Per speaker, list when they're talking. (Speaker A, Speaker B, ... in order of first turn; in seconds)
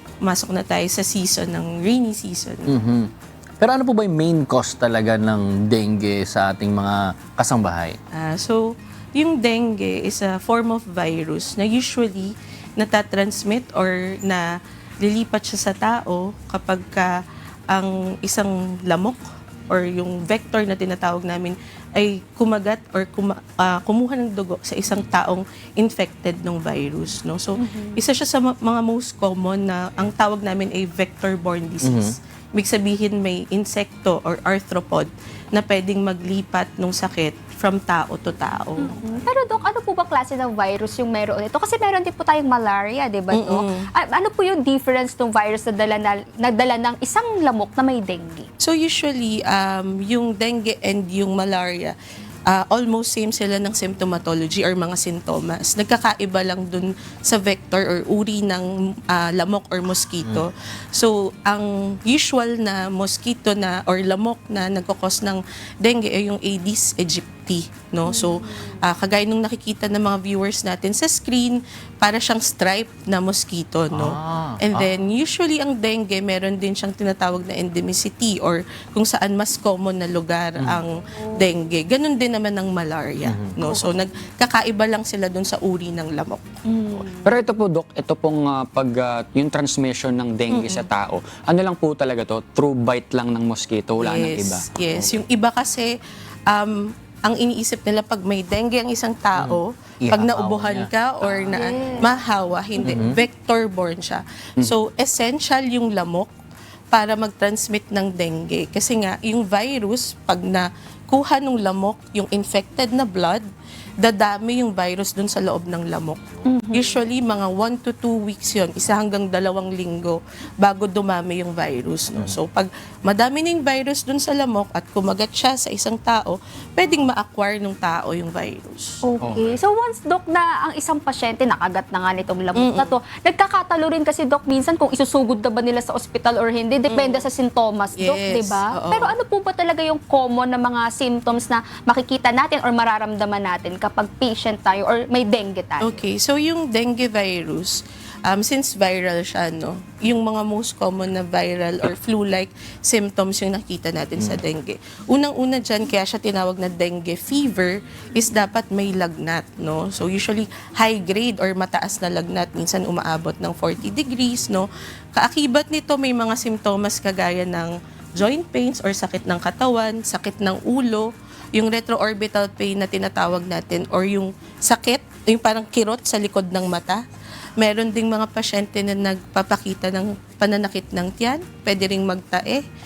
Speaker A: 0.2-2.8, 8.1-8.6, 9.2-14.4, 15.0-17.2, 17.7-39.0, 43.3-43.9, 48.6-52.0, 52.5-86.6, 90.5-90.9, 94.0-95.9, 96.5-106.3, 106.9-113.5, 114.0-129.0, 132.6-133.0, 136.9-137.3, 138.0-139.2, 145.8-177.0, 177.6-182.6
Speaker B: 2.7-3.1, 3.6-8.0, 31.8-32.1, 73.9-74.9, 83.3-83.6, 99.4-101.6, 102.9-103.2, 129.2-129.6
Speaker C: 27.6-28.0, 38.8-48.5, 68.1-68.9, 83.6-83.9, 86.7-87.4, 101.5-102.2, 116.5-117.0, 129.0-146.0
Speaker D: 87.2-95.2